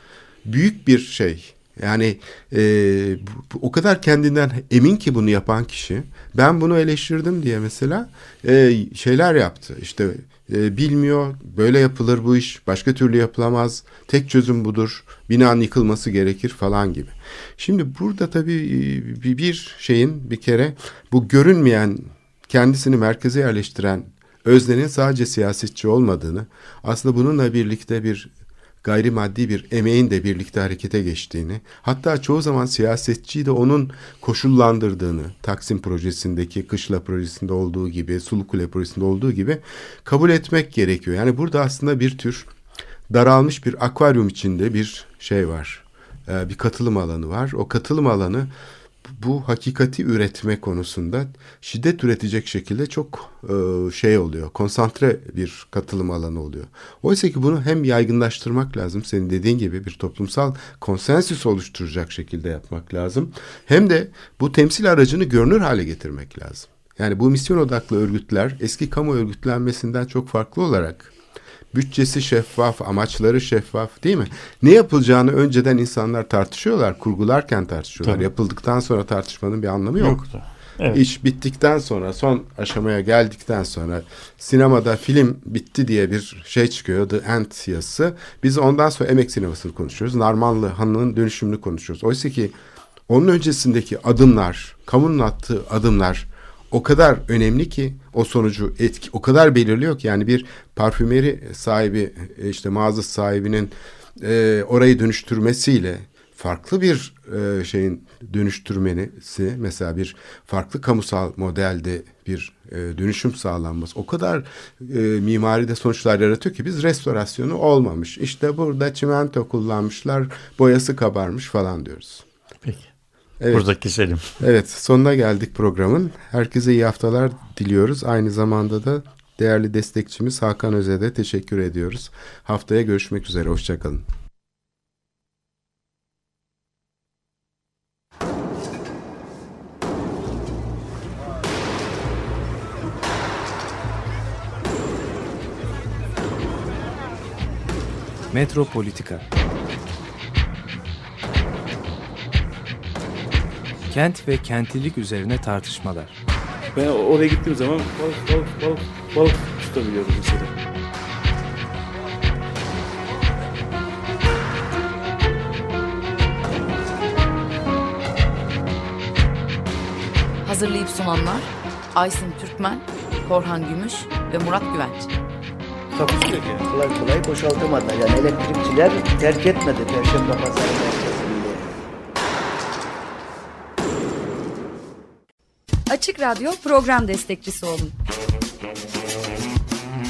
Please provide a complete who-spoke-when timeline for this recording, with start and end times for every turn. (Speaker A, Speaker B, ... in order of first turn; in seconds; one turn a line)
Speaker A: 0.5-28.3
Speaker A: 28.8-42.5
Speaker A: 43.1-48.5
Speaker A: 49.0-71.1
Speaker A: 71.7-80.2
Speaker B: 80.0-81.0
Speaker A: 80.9-92.6
Speaker A: 93.1-122.2
Speaker B: 122.6-122.9
Speaker A: 123.4-123.7
Speaker B: 123.5-124.4
Speaker A: 124.4-134.1
Speaker C: 148.3-149.2
Speaker C: 153.9-156.2
Speaker D: 156.8-160.5
Speaker E: 170.4-175.1
Speaker D: 175.9-176.7
Speaker F: 176.7-181.7
Speaker G: 185.9-187.9